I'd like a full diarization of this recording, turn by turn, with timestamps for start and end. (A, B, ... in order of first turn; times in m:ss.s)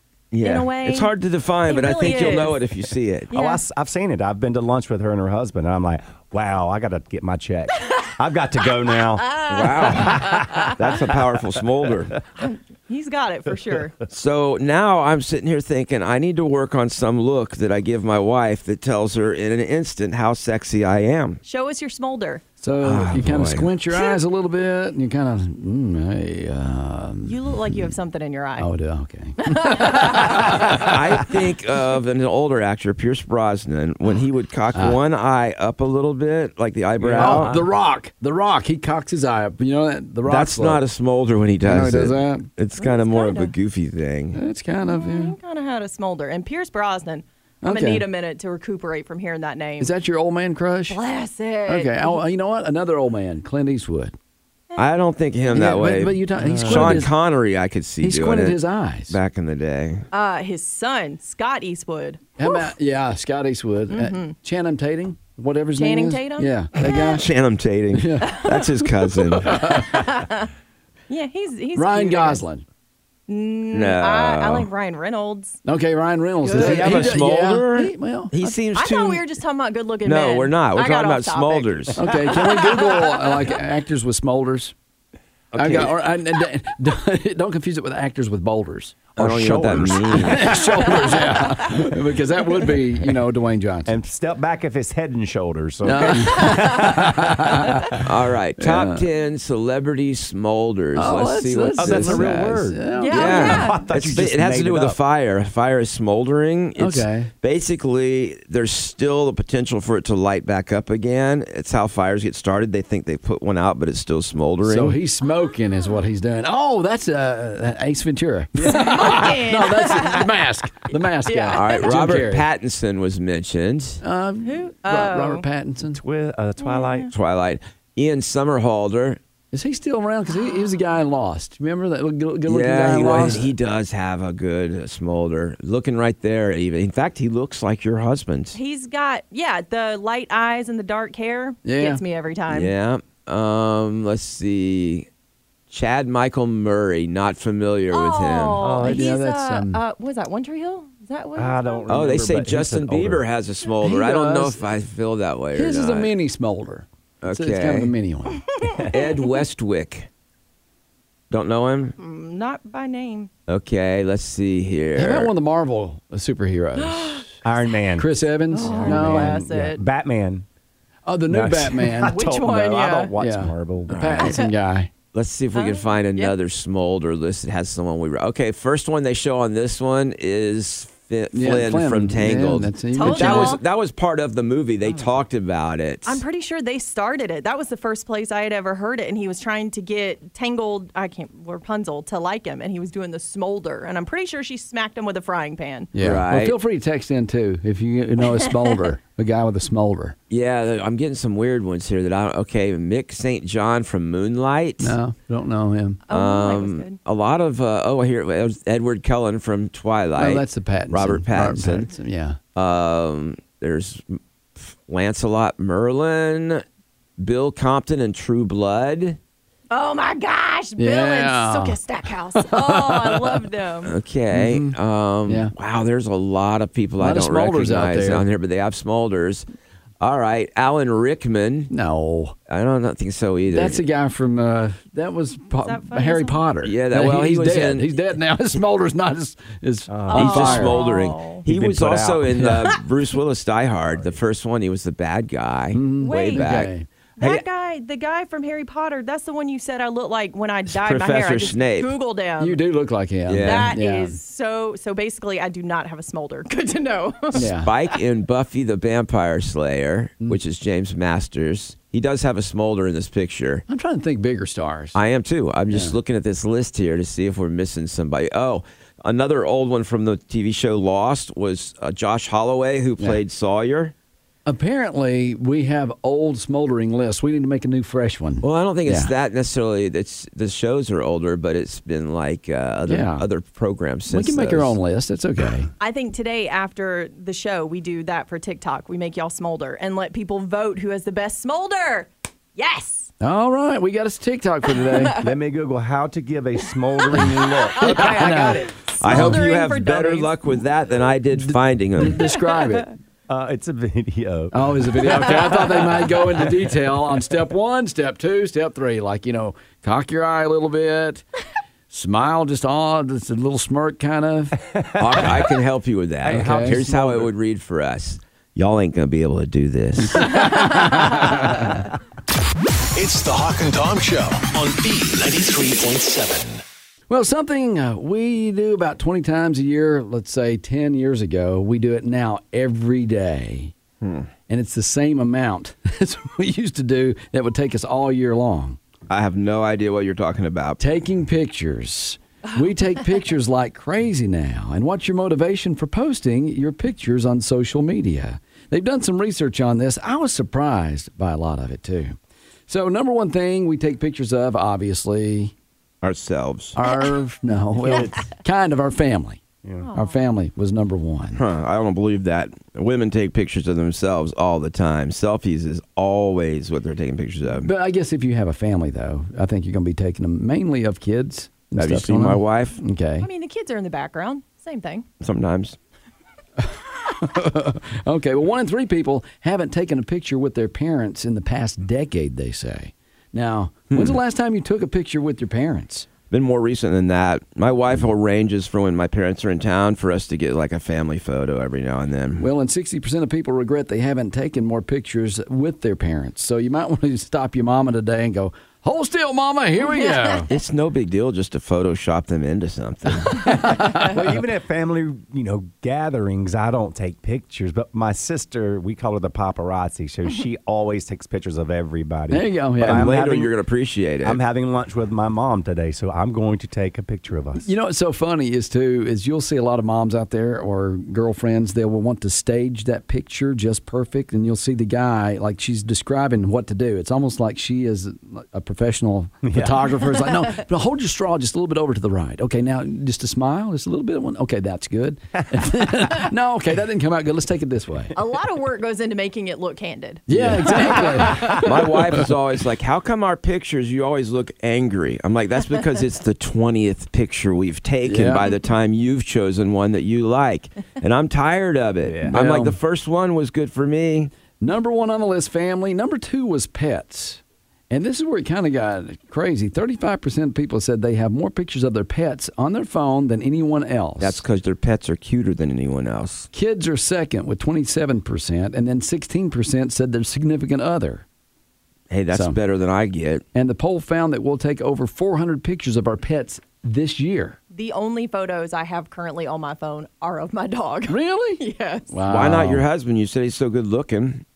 0:00.3-0:03.3 A
0:00.4-0:01.1 B
0:01.6-0:02.8 B
0:03.3-0:11.0 C
0:03.3-0:03.6 B
0:09.1-0:10.7 B
0:09.5-0:12.2 A
0:12.4-0:13.9 B
0:13.5-0:13.8 C
0:14.1-0:21.4 A
0:21.4-0:22.4 B
0:22.6-0:27.9 D
0:22.8-0:23.7 A
0:27.2-0:28.7 B
0:28.6-0:31.0 D
0:29.4-0:30.6 B
0:30.4-0:37.5 A
0:34.7-0:35.0 D
0:37.0-0:37.7 C
0:37.2-0:40.8 D
0:40.3-0:44.4 A
0:41.6-0:42.5 D
0:42.8-0:43.5 B
0:44.3-0:45.4 D
0:44.9-0:49.9 B
0:47.6-0:48.1 D
0:49.8-0:51.0 D
0:50.9-0:52.2 B
0:51.6-0:54.1 D
0:54.8-1:00.1 A
0:55.5-0:57.1 D
0:56.4-0:57.0 C
0:58.0-0:59.2 D
1:00.1-1:02.6 B
1:02.4-1:07.2 D
1:03.9-1:04.3 B
1:05.8-1:06.8 B
1:06.8-1:09.9 A
1:07.9-1:08.5 D
1:08.2-1:08.7 B
1:09.3-1:10.1 D
1:09.4-1:10.5 B
1:11.1-1:12.4 B
1:11.7-1:12.6 D
1:13.3-1:15.6 B
1:13.7-1:14.7 A
1:15.6-1:18.3 D
1:16.4-1:17.1 B
1:16.5-1:19.4 A
1:18.7-1:21.9 B
1:20.0-1:22.0 A
1:22.0-1:24.7 D
1:22.5-1:23.3 B
1:25.5-1:25.9 A
1:25.6-1:34.0 D
1:29.2-1:30.7 A
1:29.2-1:31.0 C
1:33.9-1:38.0 C
1:35.8-1:38.0 D
1:38.0-1:55.0 A
1:38.6-1:39.0 D
1:40.9-1:43.8 D
1:41.8-1:45.0 C
1:42.9-1:43.8 B
1:46.8-1:47.3 D
1:54.6-2:02.4 D
1:58.6-1:59.4 C
1:58.6-2:00.3 B
2:01.2-2:01.9 B
2:01.5-2:04.0 A
2:04.0-2:06.0 D
2:04.4-2:05.4 B
2:05.9-2:07.1 C
2:06.6-2:07.1 B
2:07.1-2:09.2 A
2:09.5-2:13.5 D
2:12.5-2:18.6 A
2:18.5-2:22.7 B
2:21.6-2:22.0 D
2:22.5-2:25.1 A
2:25.7-2:28.7 A
2:27.9-2:32.1 B
2:28.6-2:29.1 C
2:28.8-2:29.8 D
2:31.4-2:33.2 C
2:31.9-2:36.1 A
2:33.8-2:34.6 D
2:35.5-2:38.6 D
2:37.2-2:37.9 A
2:38.9-2:40.1 A
2:41.3-2:42.0 A
2:42.0-2:43.3 B
2:43.5-2:45.3 A
2:44.9-2:47.3 D
2:46.8-2:47.3 B
2:47.4-2:50.4 C
2:48.0-2:49.5 D
2:48.5-2:49.8 B
2:51.0-2:52.2 D
2:51.3-2:54.0 C
2:52.0-2:53.2 B
2:53.1-2:54.9 D
2:53.9-2:54.4 A
2:54.2-2:54.5 B
2:55.1-3:06.2 A
2:55.5-2:56.3 B
3:01.3-3:03.6 D
3:02.9-3:03.6 B
3:06.0-3:15.9 B
3:15.9-3:20.2 D
3:16.0-3:16.6 A
3:20.3-3:25.0 A
3:24.8-3:26.0 D
3:26.1-3:27.0 B
3:26.1-3:31.9 A
3:30.2-3:32.4 D
3:32.5-3:36.6 A
3:37.2-3:39.2 A
3:39.7-3:43.9 B
3:40.8-3:43.5 D
3:43.8-3:49.4 A
3:44.3-3:44.8 D
3:45.3-3:45.5 D
3:47.0-3:48.2 D
3:50.0-3:51.7 A
3:51.7-3:52.4 D
3:52.5-3:53.8 A
3:53.5-4:00.8 D
3:55.6-3:56.4 B
3:56.6-3:57.9 A
3:59.9-4:00.8 C
4:00.1-4:01.4 B
4:00.1-4:07.4 A
4:01.5-4:02.4 C
4:02.3-4:02.8 D
4:03.9-4:04.2 C
4:05.7-4:06.9 D
4:06.0-4:06.5 B
4:07.2-4:12.6 B
4:10.7-4:12.0 A
4:12.4-4:14.2 D
4:13.3-4:13.8 A
4:13.4-4:17.9 B
4:17.3-4:23.6 A
4:17.3-4:17.7 D
4:23.7-4:25.0 D
4:24.9-4:33.9 A
4:25.7-4:26.0 D
4:34.4-4:39.1 D
4:38.4-4:44.7 A
4:42.8-4:43.2 D
4:44.1-4:45.7 D
4:45.8-4:53.1 B
4:53.2-4:55.2 D
4:54.8-4:55.3 B
4:55.2-4:58.6 C
4:57.1-5:00.4 B
4:57.8-4:59.4 D
4:59.0-5:02.3 A
5:01.3-5:02.9 D
5:03.3-5:05.8 C
5:04.5-5:11.2 D
5:11.9-5:14.6 D
5:15.0-5:20.6 A
5:15.0-5:15.4 C
5:16.2-5:16.8 D
5:16.2-5:17.3 C
5:20.1-5:21.7 D
5:22.9-5:26.6 E
5:27.1-5:33.7 D
5:34.0-5:34.3 A
5:34.5-5:38.8 D
5:39.1-5:40.8 A
5:40.8-5:52.2 D
5:52.7-5:55.5 D
5:56.0-5:56.8 A
5:56.8-5:59.4 D
5:57.9-5:58.1 C
5:59.6-5:59.9 C
5:59.8-6:00.2 B
5:59.9-6:01.4 D
6:01.3-6:07.7 A
6:07.6-6:13.3 D
6:11.8-6:12.8 A
6:13.2-6:15.1 B
6:15.2-6:15.8 A
6:16.6-6:26.1 D
6:23.9-6:24.2 A
6:26.3-6:32.5 A
6:32.4-6:40.5 D
6:40.5-6:43.6 A
6:43.3-6:44.1 D
6:43.7-6:53.5 C
6:52.3-6:53.1 D
6:52.8-6:54.4 A
6:54.2-6:57.6 C
6:57.6-7:18.1 D
7:09.4-7:09.8 C
7:18.2-7:21.7 B
7:20.3-7:22.3 D
7:20.3-7:21.4 C
7:21.5-7:34.3 A
7:28.0-7:28.5 D
7:32.0-7:32.3 C
7:32.3-7:32.8 D
7:34.6-7:44.4 D
7:44.2-7:46.5 A
7:46.5-7:51.2 D
7:52.1-7:53.4 A
7:52.3-7:52.6 D
7:53.5-7:57.6 D
7:57.7-8:02.1 B
8:01.1-8:02.8 D
8:02.3-8:04.4 A